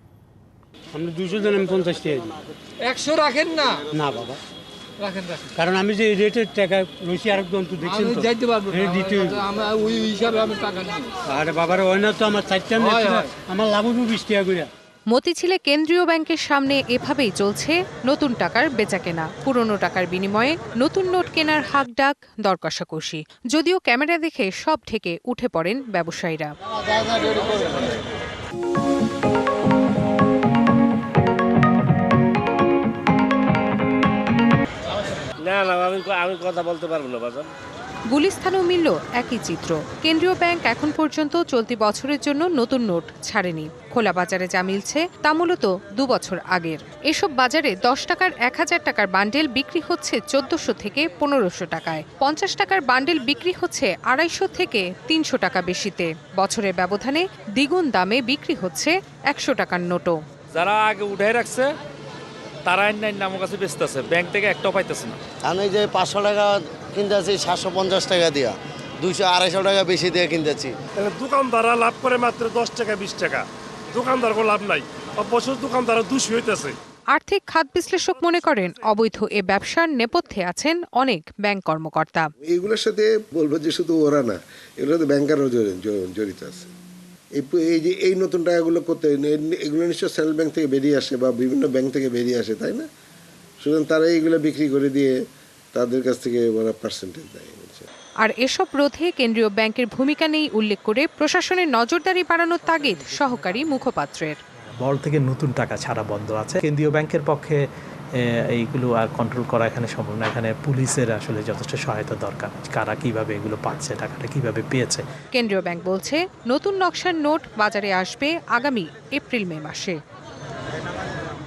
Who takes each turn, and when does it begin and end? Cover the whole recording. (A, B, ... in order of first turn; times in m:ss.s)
0:00.9-0:02.4 A
0:02.9-0:03.8 B
0:03.8-0:04.4 A
0:05.6-0:09.4 A
0:09.4-0:11.1 B
0:11.2-0:14.7 A
0:15.1-0:26.5 C
0:35.4-0:37.5 D
0:38.1-1:00.2 C
1:00.5-1:01.7 E
1:02.6-1:05.2 E
1:05.4-1:10.8 F
1:11.0-1:16.7 G
1:17.2-1:22.3 C
1:22.5-1:26.7 H
1:27.4-1:32.9 H
1:33.6-1:35.2 H
1:35.7-1:37.9 H
1:38.2-1:44.4 C
1:44.8-1:47.6 I
1:48.2-1:55.0 I
1:55.3-2:00.0 C